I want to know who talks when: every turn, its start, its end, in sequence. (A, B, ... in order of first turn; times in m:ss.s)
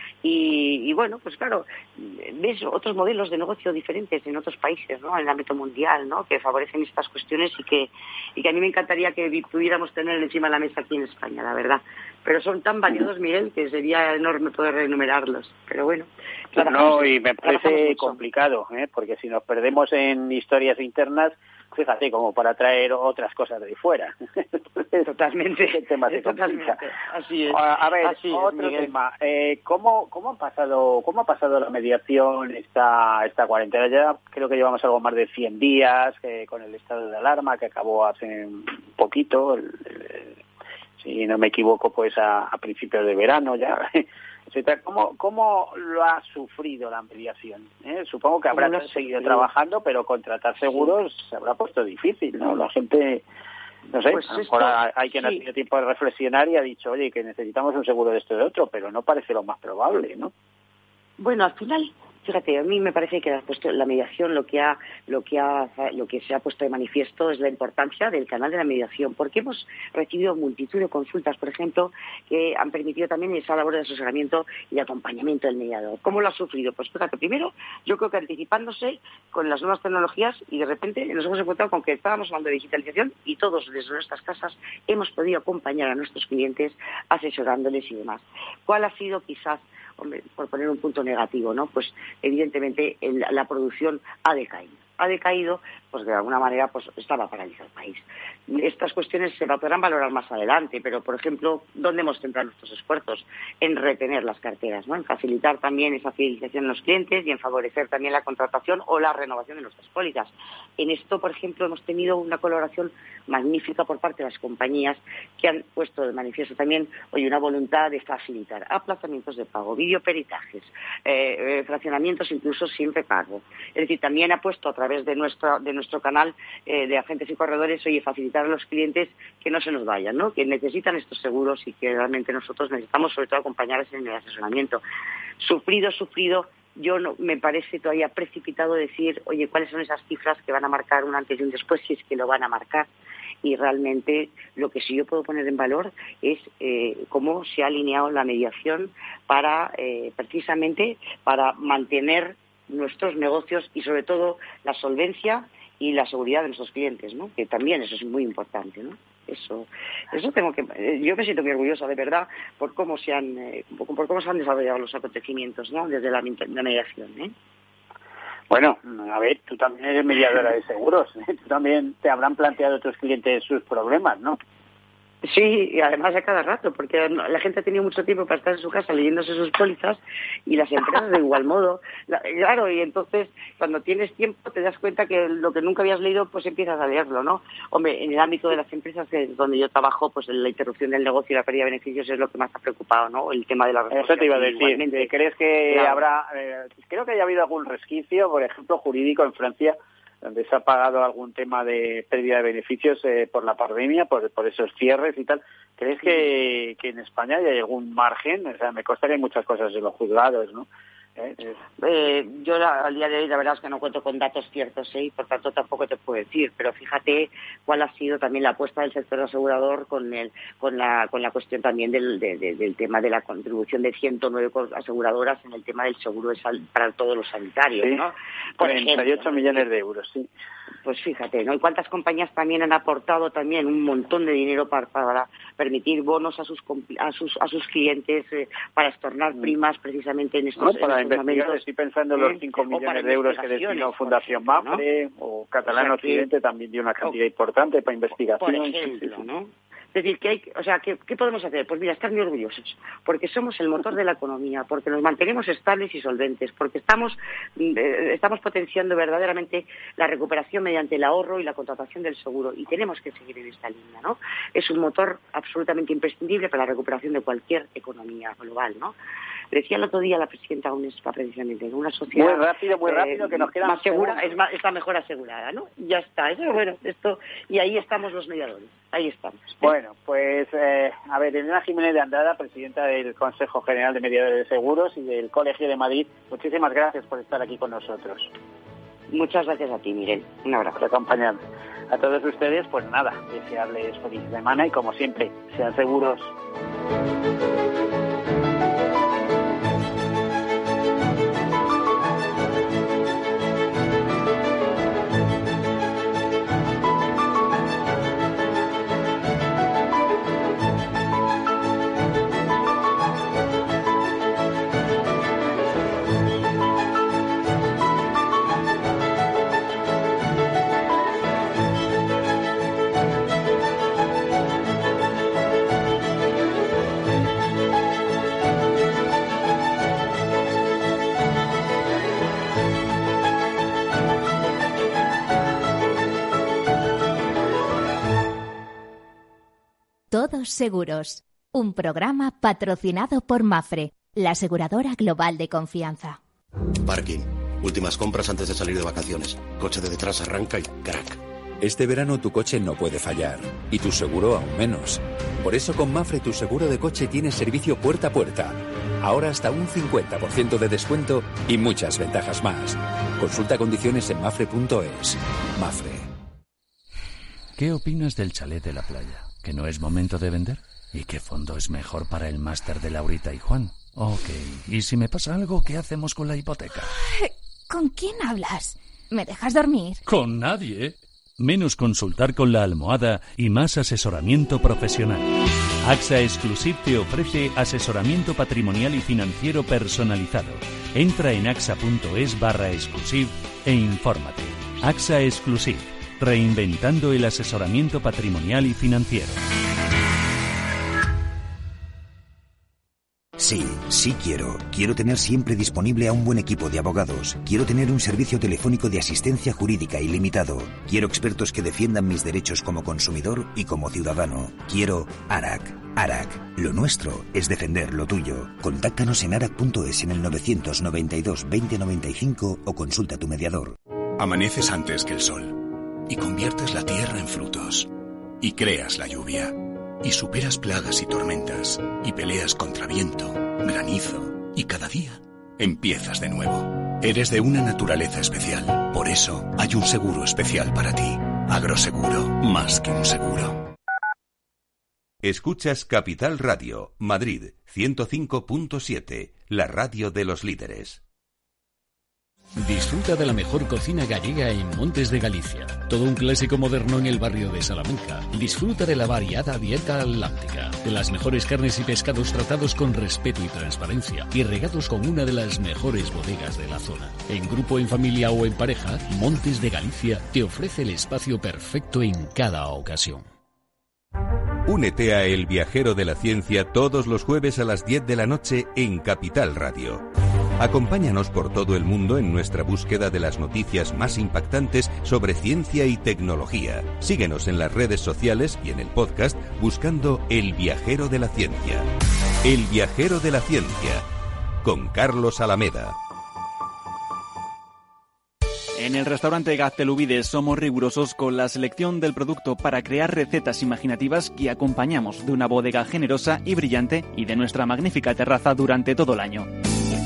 0:00.2-0:18.2 A
0:16.6-0:24.1 B
0:25.0-0:28.9 A
0:25.6-0:26.8 B
0:27.5-0:40.3 B
0:41.0-0:53.2 B
0:48.5-0:49.5 A
0:50.7-0:50.9 A
0:53.9-1:00.3 B
0:54.1-0:55.4 A
1:01.2-2:14.8 A
2:15.4-2:22.9 A
2:23.4-2:47.3 A
2:48.5-2:54.4 B
2:55.2-3:15.1 A
3:13.9-3:31.6 B
3:15.7-3:16.0 A
3:31.8-3:49.6 A
3:48.6-3:50.3 B
3:50.8-4:01.6 A
4:00.6-4:09.2 B
4:02.2-4:04.8 A
4:05.7-4:06.3 A
4:08.4-4:28.9 A
4:29.5-4:39.7 A
4:32.1-4:34.3 B
4:39.6-4:48.3 B
4:49.1-4:50.8 A
4:50.8-4:56.3 B
5:40.1-5:46.2 C
5:46.8-5:51.2 D
5:51.6-6:06.1 E
6:07.6-6:16.9 F
6:17.0-6:20.0 G
6:20.0-6:25.3 F
6:25.8-6:39.4 F
6:43.4-7:03.8 H
7:04.2-7:07.9 I
7:08.4-7:23.6 I
7:25.2-7:31.0 J
7:32.6-7:53.2 K
7:54.6-8:00.0 J
8:00.6-8:11.9 J
8:12.4-8:14.0 J
8:14.6-8:16.0 J
8:18.8-8:29.5 L